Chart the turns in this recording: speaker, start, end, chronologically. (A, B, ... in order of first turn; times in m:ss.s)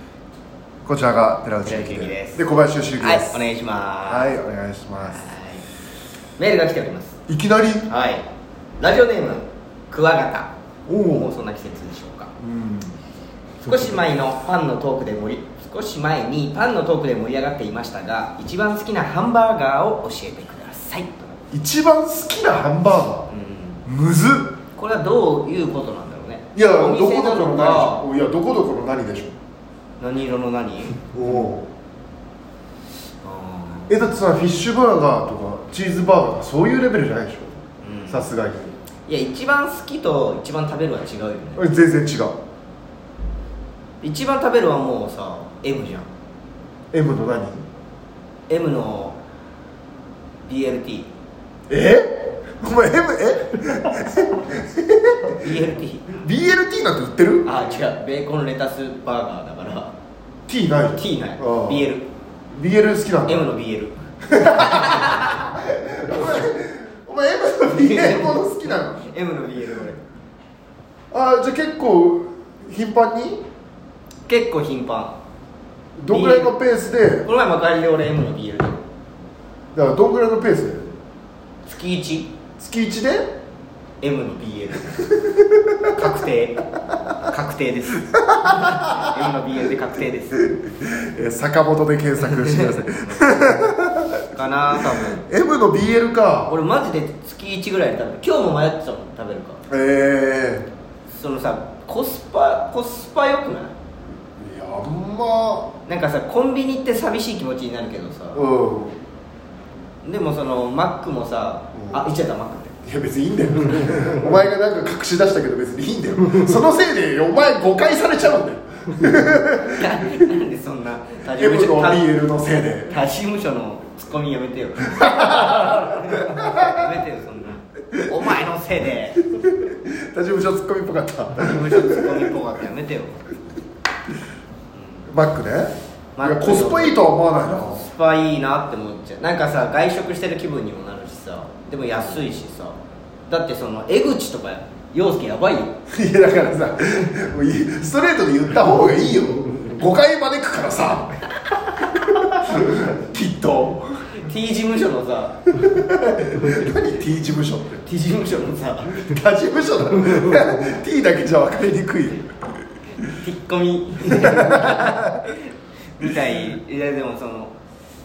0:00.8-0:03.4 A
0:01.6-0:02.4 B
0:03.0-0:04.4 B
0:04.0-0:05.2 A
0:05.0-0:05.6 B
0:06.4-0:07.2 B
0:07.3-0:07.9 A
0:07.9-0:08.2 B
0:08.8-0:10.5 B
0:10.9-0:11.3 A
0:11.0-0:12.3 B
0:12.4-0:12.9 A
0:13.6-0:21.3 B
0:13.7-0:14.0 A
0:21.5-0:23.3 A
0:23.3-0:23.8 B
0:23.8-0:24.5 A
0:24.8-0:28.0 B
0:26.5-0:29.4 A
0:30.0-0:31.0 B
0:31.1-0:31.7 A
0:33.2-0:33.9 B
0:33.9-0:37.5 A
0:37.8-0:38.3 B
0:38.1-0:38.7 A
0:39.1-0:41.6 B
0:41.6-0:42.4 A
0:44.0-0:46.1 B
0:46.9-0:47.6 A
0:48.5-0:49.2 B
0:50.4-0:51.1 B
0:51.7-0:55.5 A
0:55.3-0:56.2 B
0:56.2-0:57.6 A
0:57.4-0:59.9 B
1:00.5-1:01.8 A
1:01.0-1:02.0 B
1:02.5-1:03.5 A
1:03.2-1:05.5 B
1:04.3-1:09.1 A
1:07.7-1:10.0 B
1:11.1-1:13.4 A
1:14.3-1:15.2 B
1:16.0-1:17.3 A
1:16.1-1:16.5 B
1:17.2-1:18.8 B
1:19.7-1:21.0 A
1:21.6-1:22.3 B
1:22.6-1:23.4 A
1:24.0-1:25.1 B
1:25.2-1:25.9 A
1:25.9-1:30.5 B
1:28.0-1:29.2 A
1:30.4-1:34.2 A
1:32.2-1:33.6 B
1:34.3-1:35.2 B
1:34.8-1:36.5 A
1:36.5-1:39.6 B
1:39.7-1:40.7 A
1:41.1-1:43.7 B
1:44.4-1:45.7 A
1:45.8-1:48.4 B
1:48.3-1:49.0 A
1:50.0-1:52.8 B
1:51.7-1:52.0 A
1:52.8-2:00.2 A
1:59.6-2:02.0 B
2:01.3-2:03.0 A
2:02.9-2:09.2 B
2:04.9-2:06.9 A
2:09.3-2:12.3 A
2:11.4-2:13.2 B
2:14.7-2:15.0 B
2:15.1-2:17.9 A
2:16.2-2:17.0 B
2:17.7-2:25.8 B
2:25.9-2:34.2 A
2:34.1-2:35.4 B
2:35.5-2:37.8 A
2:37.8-2:39.1 B
2:38.9-2:42.6 A
2:43.0-2:47.5 B
2:44.1-2:45.3 A